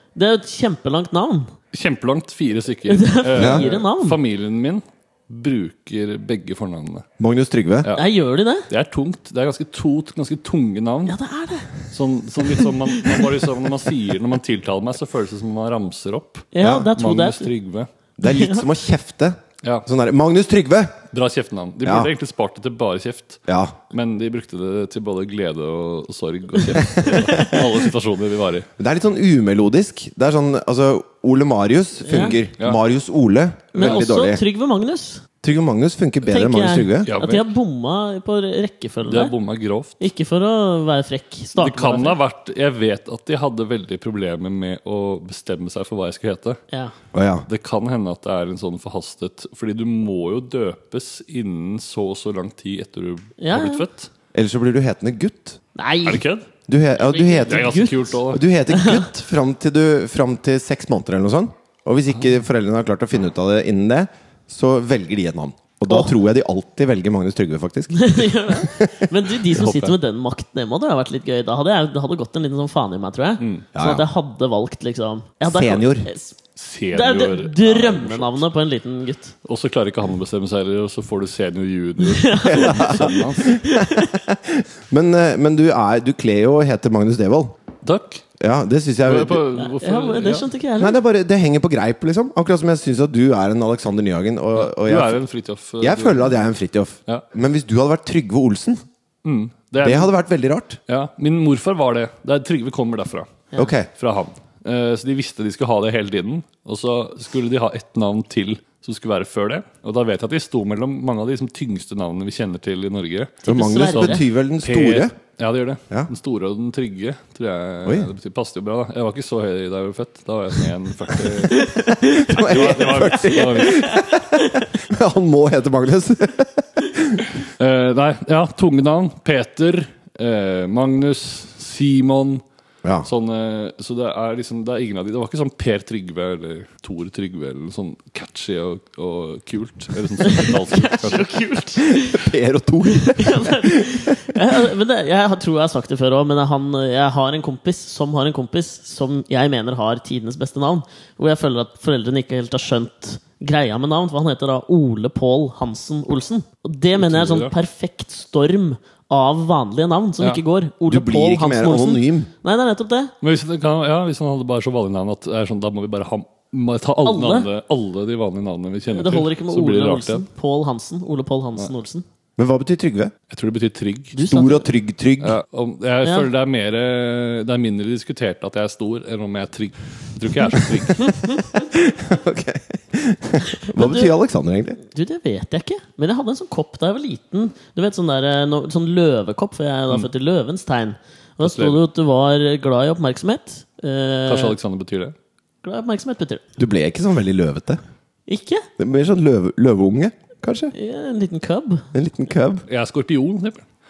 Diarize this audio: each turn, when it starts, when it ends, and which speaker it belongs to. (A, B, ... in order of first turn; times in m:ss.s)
0:00.2-0:01.5 A
0:01.7-0:07.0 B
0:02.9-0:04.2 A
0:03.4-0:03.6 C
0:07.2-0:07.9 C
0:08.0-0:08.7 A
0:08.7-0:11.2 B
0:11.1-0:11.7 A
0:11.9-0:17.9 B
0:12.6-0:13.4 A
0:16.5-0:17.5 A
0:16.6-0:16.9 C
0:18.2-0:21.0 C
0:18.2-0:18.6 A
0:21.1-0:23.4 B
0:21.8-0:22.1 C
0:23.5-0:23.8 C
0:23.9-0:28.7 B
0:26.8-0:27.4 C
0:27.1-0:27.6 A
0:28.8-0:34.4 C
0:32.1-0:32.4 A
0:32.1-0:32.8 B
0:33.7-0:35.2 A
0:33.8-0:34.1 B
0:35.4-0:37.1 C
0:36.3-0:39.3 A
0:37.1-0:37.5 B
0:39.1-0:40.0 B
0:40.0-0:42.2 A
0:41.6-0:46.6 B
0:47.1-0:47.5 C
0:47.5-0:54.1 B
0:53.4-0:53.8 A
0:54.3-0:55.6 C
0:55.8-0:56.2 A
0:56.0-0:56.5 B
0:56.7-1:09.0 C
0:57.1-0:58.2 A
0:57.2-0:58.5 B
0:58.7-0:59.0 A
1:08.0-1:16.4 A
1:09.5-1:10.0 B
1:13.4-1:13.7 B
1:13.8-1:14.1 C
1:15.4-1:16.1 C
1:16.6-1:18.4 B
1:16.9-1:19.3 A
1:19.4-1:23.6 B
1:22.1-1:24.1 A
1:22.5-1:27.6 C
1:27.8-1:28.2 B
1:28.4-1:29.4 C
1:29.0-1:30.5 B
1:29.6-1:31.0 A
1:30.8-1:35.2 C
1:34.6-1:36.4 B
1:35.8-1:38.8 C
1:39.2-1:40.1 B
1:39.8-1:40.8 C
1:40.9-1:43.3 B
1:43.6-1:43.9 C
1:44.0-1:53.4 B
1:53.4-1:55.1 C
1:53.5-1:54.2 A
1:53.9-2:01.7 B
2:01.5-2:02.4 A
2:02.2-2:07.3 C
2:02.3-2:03.8 B
2:03.7-2:04.0 A
2:07.6-2:12.4 B
2:12.8-2:13.1 C
2:13.0-2:21.5 B
2:20.2-2:22.3 A
2:21.8-2:24.4 C
2:22.9-2:43.1 A
2:37.0-2:37.5 B
2:40.9-2:42.3 C
2:43.2-2:50.3 B
2:47.0-2:47.5 A
2:48.9-2:52.1 A
2:52.4-2:53.1 C
2:53.3-2:54.2 B
2:54.1-2:54.7 A
2:54.3-2:55.4 C
2:55.2-3:01.2 B
2:56.0-2:56.3 A
3:01.6-3:04.8 C
3:03.7-3:04.1 A
3:04.9-3:14.6 A
3:11.4-3:11.8 B
3:14.3-3:15.2 B
3:15.6-3:16.4 A
3:16.6-3:17.8 C
3:18.3-3:18.7 A
3:18.8-3:20.7 C
3:20.7-3:21.9 A
3:21.9-3:22.6 C
3:22.7-3:23.6 B